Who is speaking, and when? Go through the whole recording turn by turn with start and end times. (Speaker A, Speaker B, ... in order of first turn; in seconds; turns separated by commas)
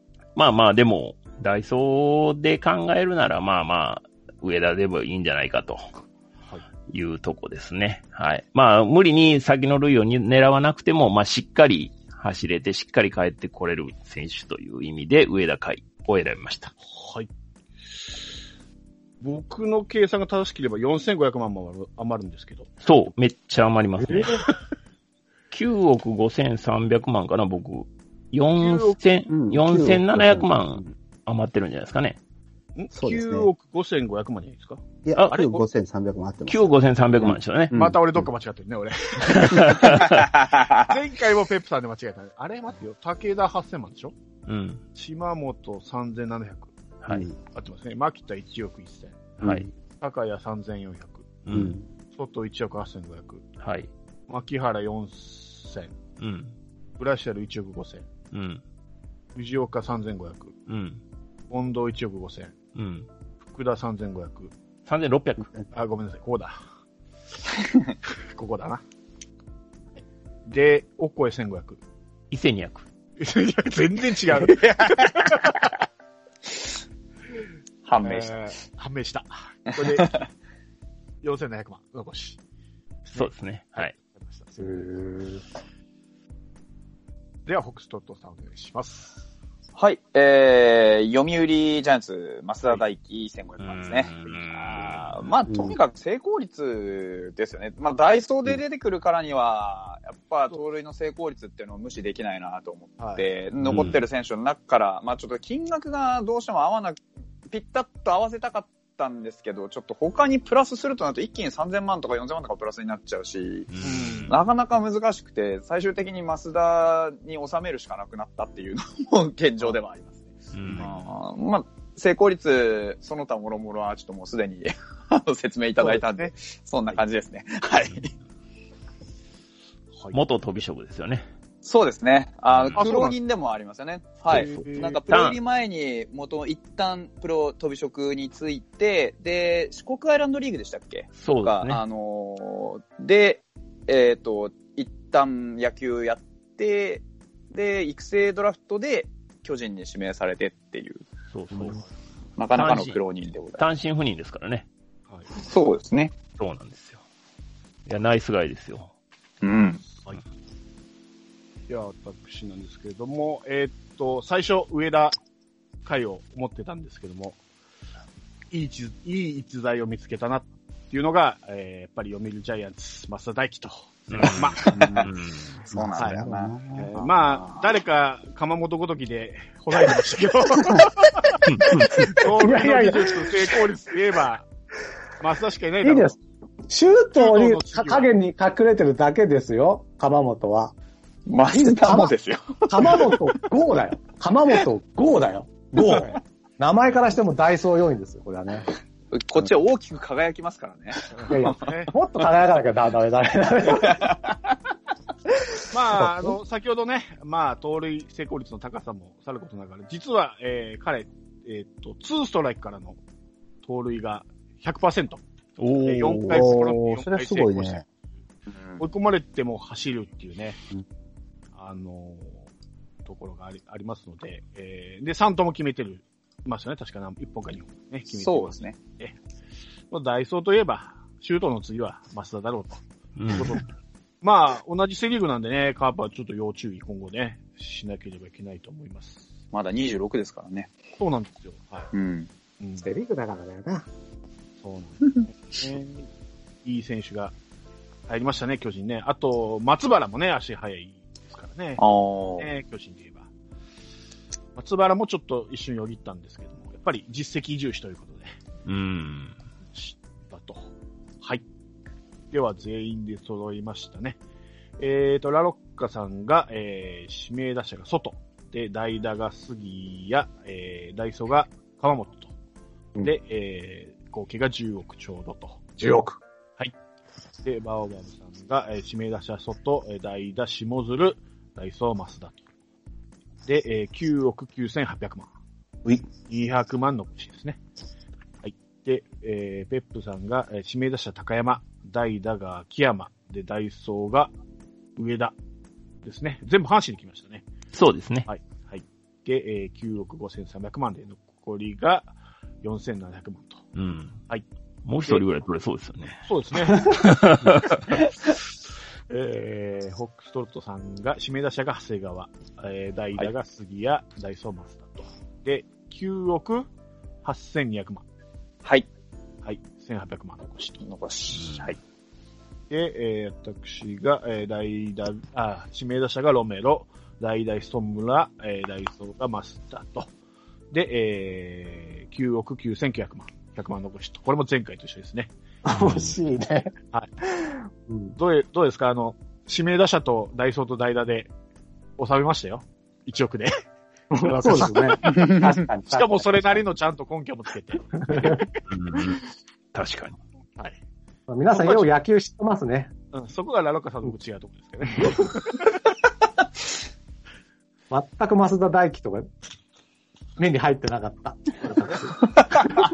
Speaker A: 0.4-5.8, Speaker A: 6.9-16.7, Speaker B: 16.8-17.3, Speaker B: 19.2-22.7, Speaker A: 22.8-24.4, Speaker B: 24.1-24.5, Speaker A: 25.5-32.2, Speaker B: 28.6-29.0, Speaker C: 29.3-30.9, Speaker B: 32.8-34.8, Speaker C: 32.9-33.5, Speaker C: 35.0-38.3, Speaker A: 35.2-35.5, Speaker A: 36.5-37.7, Speaker B: 37.7-40.2, Speaker A: 39.3-40.3, Speaker D: 40.5-40.8, Speaker B: 40.9-44.1, Speaker A: 44.5-44.8, Speaker B: 45.0-46.7, Speaker A: 47.0-47.3, Speaker C: 47.1-47.4, Speaker B: 47.4-51.5, Speaker C: 49.4-49.7, Speaker A: 49.4-49.7, Speaker A: 51.5-51.8, Speaker C: 51.5-51.9, Speaker B: 52.0-53.5, Speaker A: 53.6-53.9, Speaker B: 54.3-55.9, Speaker A: 56.2-56.5, Speaker B: 57.0-58.1, Speaker A: 58.3-58.6, Speaker B: 59.4-60.6, Speaker A: 60.7-61.0, Speaker B: 61.5-62.6, Speaker A: 62.8-63.1, Speaker B: 63.4-64.5, Speaker A: 64.9-65.5, Speaker B: 65.7-66.6, Speaker B: 68.3-68.8, Speaker B: 70.5-71.8, Speaker A: 72.3-72.9, Speaker B: 73.2-75.7, Speaker D: 74.4-75.7, Speaker D: 77.8-78.5, Speaker B: 78.0-80.1, Speaker D: 79.7-80.2, Speaker B: 81.2-82.4, Speaker B: 83.0-85.0, Speaker A: 83.2-83.9, Speaker E: 84.6-85.4, Speaker B: 87.5-89.3, Speaker D: 89.8-113.7, Speaker A: 93.6-95.3, Speaker C: 95.5-95.8, Speaker B: 103.0-103.3, Speaker A: 103.7-104.0, Speaker A: 113.7-114.4, Speaker B: 113.8-114.3, Speaker D: 114.3-128.1, Speaker A: 120.5-121.1, Speaker B: 125.8-126.3, Speaker A: 130.1-131.3, Speaker D: 131.6-151.1, Speaker A: 132.5-132.8, Speaker B: 132.7-133.2, Speaker B: 134.3-135.0, Speaker A: 135.1-135.4, Speaker A: 141.2-141.8, Speaker A: 151.3-151.8, Speaker B: 151.5-151.9, Speaker D: 152.4-153.6, Speaker A: 152.6-153.0, Speaker A: 153.6-154.7, Speaker D: 155.3-156.1, Speaker A: 156.4-157.0, Speaker A: 157.9-158.9, Speaker D: 159.4-159.8, Speaker B: 159.9-160.2, Speaker B: 161.7-165.2, Speaker B: 165.8-167.4, Speaker B: 168.5-175.1, Speaker A: 174.1-175.6, Speaker D: 174.6-175.1, Speaker D: 175.6-177.7, Speaker C: 175.7-176.9, Speaker B: 176.0-176.2, Speaker B: 176.7-181.4, Speaker A: 181.4-182.1, Speaker B: 182.1-184.5, Speaker E: 182.3-183.3, Speaker B: 185.2-186.1, Speaker E: 185.8-186.1, Speaker E: 186.7-190.7, Speaker B: 187.2-188.1, Speaker D: 191.3-193.2, Speaker E: 191.5-192.1, Speaker E: 192.7-198.7, Speaker D: 195.8-196.2, Speaker D: 199.1-201.5, Speaker B: 201.1-201.9, Speaker E: 201.3-204.1, Speaker D: 203.8-204.3, Speaker B: 205.7-213.0, Speaker E: 206.0-206.4, Speaker B: 213.6-215.2, Speaker A: 215.6-216.4, Speaker B: 215.8-217.9, Speaker C: 216.3-217.8, Speaker D: 218.5-218.8, Speaker B: 218.8-220.6, Speaker B: 221.6-222.4, Speaker B: 223.1-229.2, Speaker D: 228.1-228.8, Speaker B: 229.9-233.7, Speaker A: 233.2-233.6, Speaker B: 234.2-239.3, Speaker D: 239.5-240.7, Speaker B: 241.0-241.9, Speaker D: 241.9-242.3, Speaker B: 242.6-242.9, Speaker E: 242.8-243.9, Speaker B: 244.6-246.1, Speaker B: 246.6-247.3, Speaker B: 248.1-251.8, Speaker D: 251.8-252.5, Speaker B: 252.4-253.3, Speaker B: 254.6-258.3, Speaker A: 258.7-259.4, Speaker B: 259.7-260.7, Speaker B: 262.3-264.2, Speaker B: 264.8-272.3, Speaker B: 273.0-275.7, Speaker E: 275.8-276.2, Speaker B: 277.4-282.4, Speaker B: 283.5-285.3, Speaker B: 286.2-287.6, Speaker B: 288.4-294.3, Speaker B: 295.0-295.4, Speaker B: 296.0-297.5, Speaker A: 297.7-298.3, Speaker B: 298.3-303.6, Speaker A: 303.8-304.2, Speaker A: 304.9-308.0, Speaker B: 306.2-307.0, Speaker B: 309.1-316.7, Speaker B: 317.2-318.0, Speaker B: 319.4-320.8, Speaker D: 320.8-321.8, Speaker A: 321.3-321.7, Speaker B: 322.7-330.1, Speaker B: 330.7-335.3, Speaker E: 335.7-338.1, Speaker B: 338.2-341.3, Speaker B: 342.0-343.6, Speaker E: 344.1-346.6, Speaker B: 344.2-348.6, Speaker D: 345.1-345.6, Speaker E: 348.1-348.4, Speaker A: 348.7-349.2, Speaker A: 349.7-350.2, Speaker E: 351.3-352.9, Speaker B: 351.5-351.9, Speaker B: 353.1-355.7, Speaker E: 357.9-359.3, Speaker E: 360.4-362.3